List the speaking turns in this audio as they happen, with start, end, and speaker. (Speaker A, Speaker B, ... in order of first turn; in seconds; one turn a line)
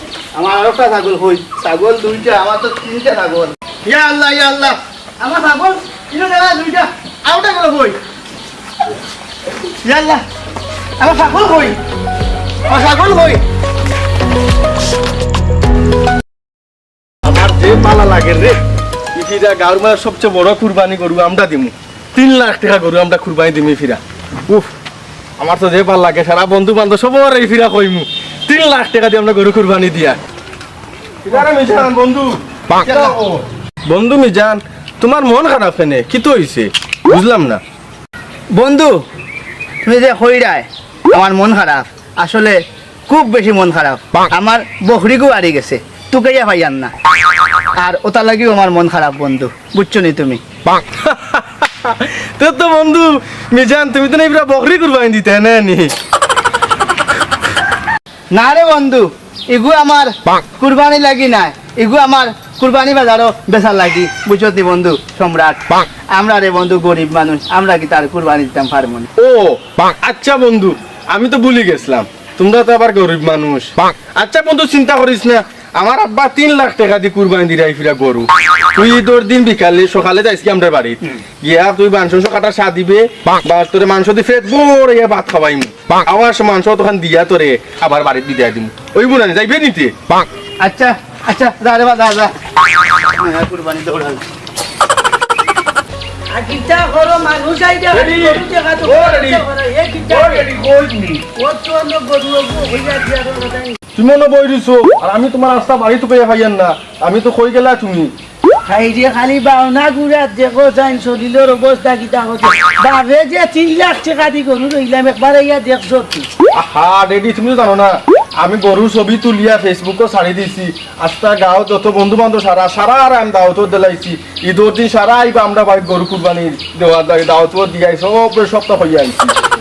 Speaker A: 0.3-8.0
Speaker A: 9.8-10.2
Speaker A: 11.0-11.8
Speaker A: 12.7-13.4
Speaker B: 17.2-18.6
Speaker B: 19.1-24.7
Speaker B: 25.4-30.2
Speaker B: 31.2-37.6
Speaker A: 38.5-39.0
Speaker A: 39.8-46.9
Speaker A: 47.8-50.4
Speaker B: 50.7-55.9
Speaker A: 58.3-69.1
Speaker B: 69.2-89.9
Speaker A: 90.6-92.3
Speaker A: 93.1-94.2
Speaker C: 96.3-100.5
Speaker B: 97.9-99.4
Speaker B: 100.1-101.2
Speaker C: 101.2-103.8
Speaker B: 103.9-108.1
Speaker C: 108.6-116.3
Speaker B: 116.5-129.3